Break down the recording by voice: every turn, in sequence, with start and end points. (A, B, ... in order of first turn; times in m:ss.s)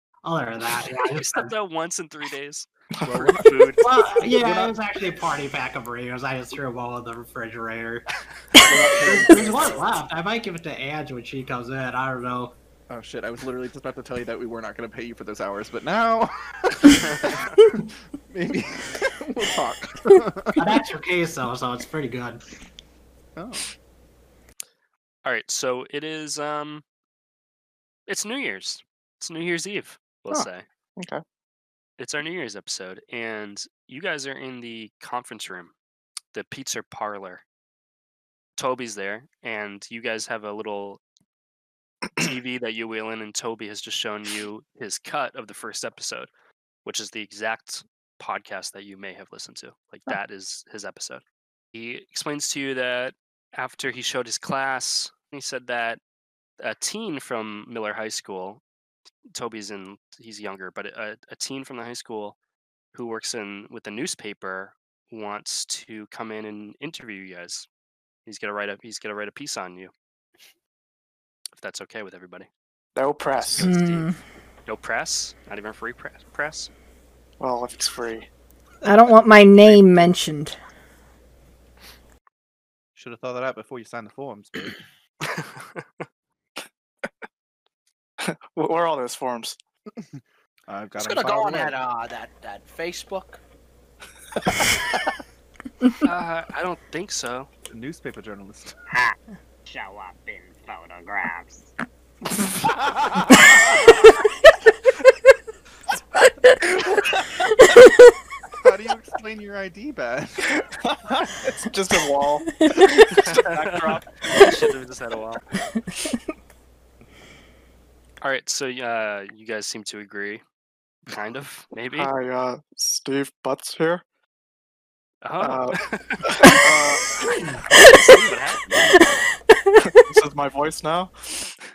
0:00.2-0:01.5 A
0:01.0-0:02.7 B
0:03.0-0:03.3 C
0:03.0-0:04.8 D
0:03.4-0:03.8 B
0:03.8-0:08.0 A
0:08.6-0:09.8 D
0:08.9-0:12.5 A
0:12.9-0:17.6 D
0:18.3-0:20.7 D
0:20.6-0:22.4 A
0:23.4-0:23.7 D
0:25.2-0:26.8 B
0:28.1-0:30.6 B
0:31.0-0:31.2 C
0:32.0-0:35.7 B
0:36.3-0:37.4 B
0:38.6-0:41.0 B
0:42.2-0:46.3 B
0:46.8-0:51.2 B
0:51.7-0:56.0 B
0:56.6-0:58.6 B
0:59.3-1:02.4 B
1:02.9-1:07.7 B
1:08.2-1:09.9 B
1:11.5-1:12.5 B
1:12.9-1:13.7 C
1:13.4-1:14.1 B
1:13.6-1:14.2 E
1:14.7-1:16.7 B
1:17.4-1:18.3 C
1:18.8-1:20.6 E
1:23.0-1:24.8 D
1:25.3-1:25.8 B
1:28.2-1:29.6 C
1:29.9-1:31.8 D
1:31.0-1:33.4 F
1:36.0-1:37.5 B
1:37.7-1:38.8 D
1:38.9-1:41.7 G
1:43.0-1:43.5 D
1:48.6-1:50.7 D
1:51.2-1:51.6 D
1:51.6-1:52.5 C
1:53.2-1:55.4 B
1:53.2-1:54.0 C
1:58.2-2:00.4 B
2:01.1-2:02.1 B
2:01.9-2:04.0 C
2:05.2-2:06.7 B
2:05.4-2:07.1 C
2:07.7-2:08.9 B
2:10.0-2:11.5 C